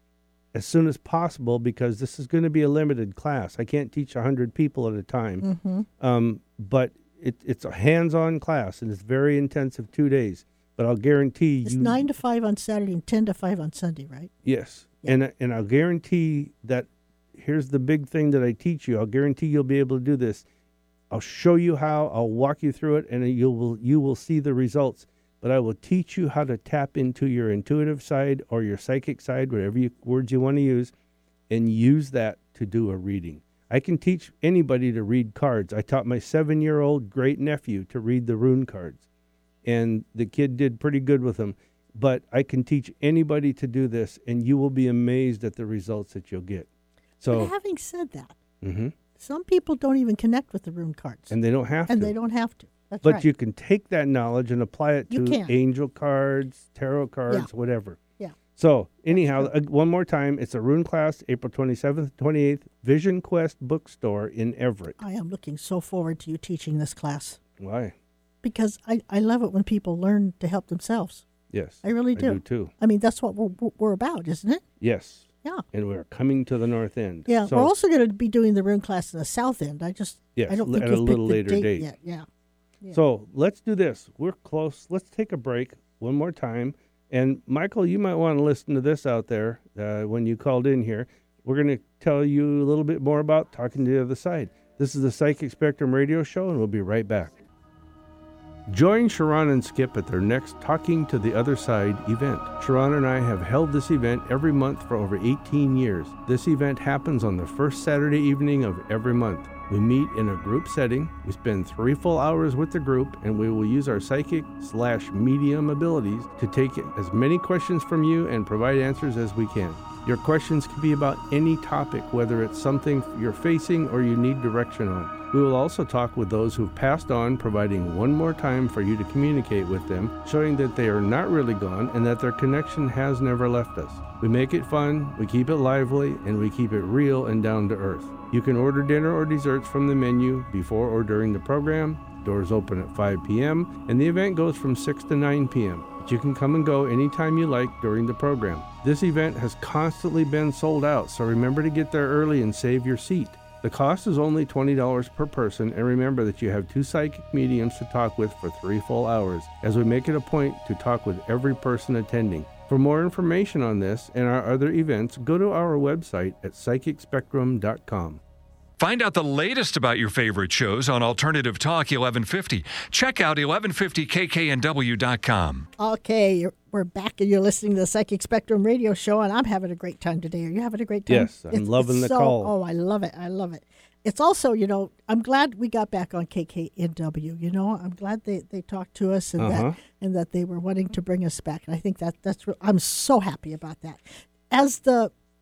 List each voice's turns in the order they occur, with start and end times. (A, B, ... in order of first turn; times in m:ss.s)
0:00.5-0:05.4 A
0:05.4-0:05.9 B
0:06.0-0:12.0 A
0:11.6-0:14.3 B
0:14.4-0:20.4 A
0:21.1-0:30.9 A
0:31.5-0:39.0 A
0:39.6-0:46.7 A
0:47.2-0:47.5 A
0:47.3-0:48.4 B
0:48.6-0:48.9 A
0:49.2-0:51.3 B
0:51.3-0:52.1 A
0:51.9-0:53.3 B
0:53.0-0:58.0 A
0:55.1-0:55.5 B
0:58.6-1:05.0 A
0:59.1-0:59.5 B
1:05.0-1:07.4 B
1:07.6-1:07.9 A
1:08.4-1:11.2 B
1:11.5-1:12.7 A
1:11.8-1:14.6 B
1:14.8-1:17.7 A
1:17.3-1:22.2 B
1:20.4-1:21.9 A
1:22.9-1:37.4 A
1:38.7-2:48.2 A
2:48.8-2:55.7 C
2:55.8-3:15.1 B
3:01.1-3:02.5 A
3:09.4-3:09.8 A